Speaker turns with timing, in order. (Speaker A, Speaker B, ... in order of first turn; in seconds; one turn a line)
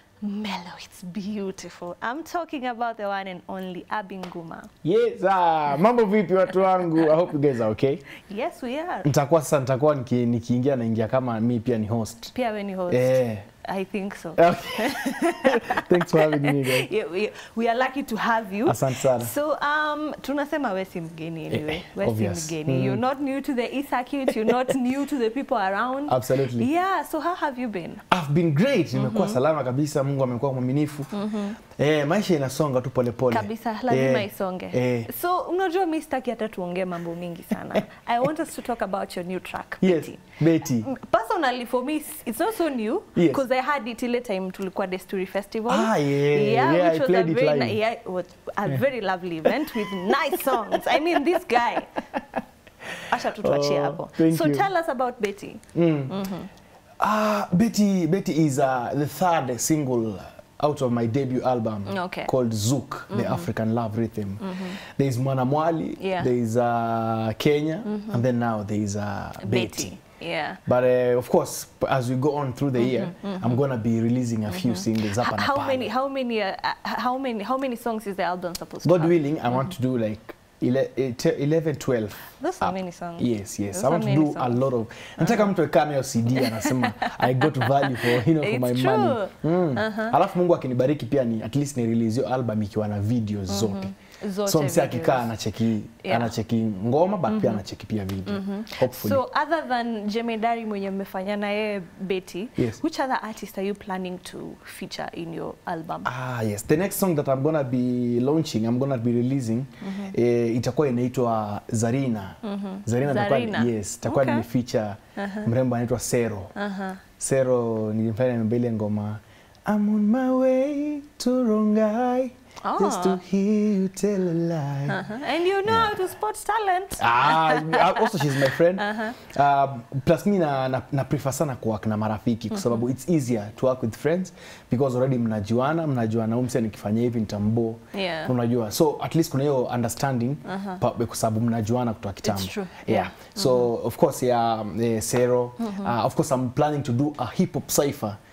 Speaker A: 0.2-4.7
Speaker B: 4.8-8.1
Speaker A: 8.2-9.1
Speaker B: 9.0-12.3
Speaker A: 12.3-28.0
Speaker B: 12.9-13.5
Speaker B: 14.4-16.9
Speaker B: 18.6-19.3
Speaker B: 21.5-23.0
Speaker B: 24.3-24.8
Speaker B: 26.1-26.7
Speaker B: 28.1-31.1
Speaker A: 28.9-29.4
Speaker A: 31.1-31.6
Speaker B: 31.7-35.1
Speaker A: 33.3-52.0
Speaker B: 39.8-40.9
Speaker B: 43.2-43.4
Speaker B: 45.7-47.8
Speaker B: 49.4-51.4
Speaker B: 53.0-54.7
Speaker A: 53.1-56.5
Speaker B: 55.7-56.2
Speaker B: 57.0-70.0
Speaker A: 61.9-62.3
Speaker A: 63.1-63.5
Speaker A: 64.4-64.8
Speaker A: 66.0-66.3
Speaker A: 67.9-68.2
Speaker A: 69.4-70.6
Speaker B: 70.7-75.9
Speaker A: 72.8-73.6
Speaker A: 74.5-79.7
Speaker B: 78.8-93.9
Speaker A: 82.4-84.6
Speaker A: 85.2-85.5
Speaker A: 86.3-90.2
Speaker A: 93.5-95.3
Speaker B: 94.5-99.2
Speaker A: 96.0-96.3
Speaker A: 97.3-97.6
Speaker A: 98.3-106.1
Speaker B: 106.0-116.5
Speaker A: 109.8-110.1
Speaker A: 112.4-114.5
Speaker A: 115.2-115.5
Speaker A: 116.6-117.0
Speaker B: 117.2-126.0
Speaker A: 122.6-123.2
Speaker A: 124.9-129.2
Speaker B: 127.0-148.2
Speaker A: 132.5-132.9
Speaker A: 137.9-138.3
Speaker A: 140.5-140.8
Speaker A: 142.2-143.7
Speaker A: 145.6-145.9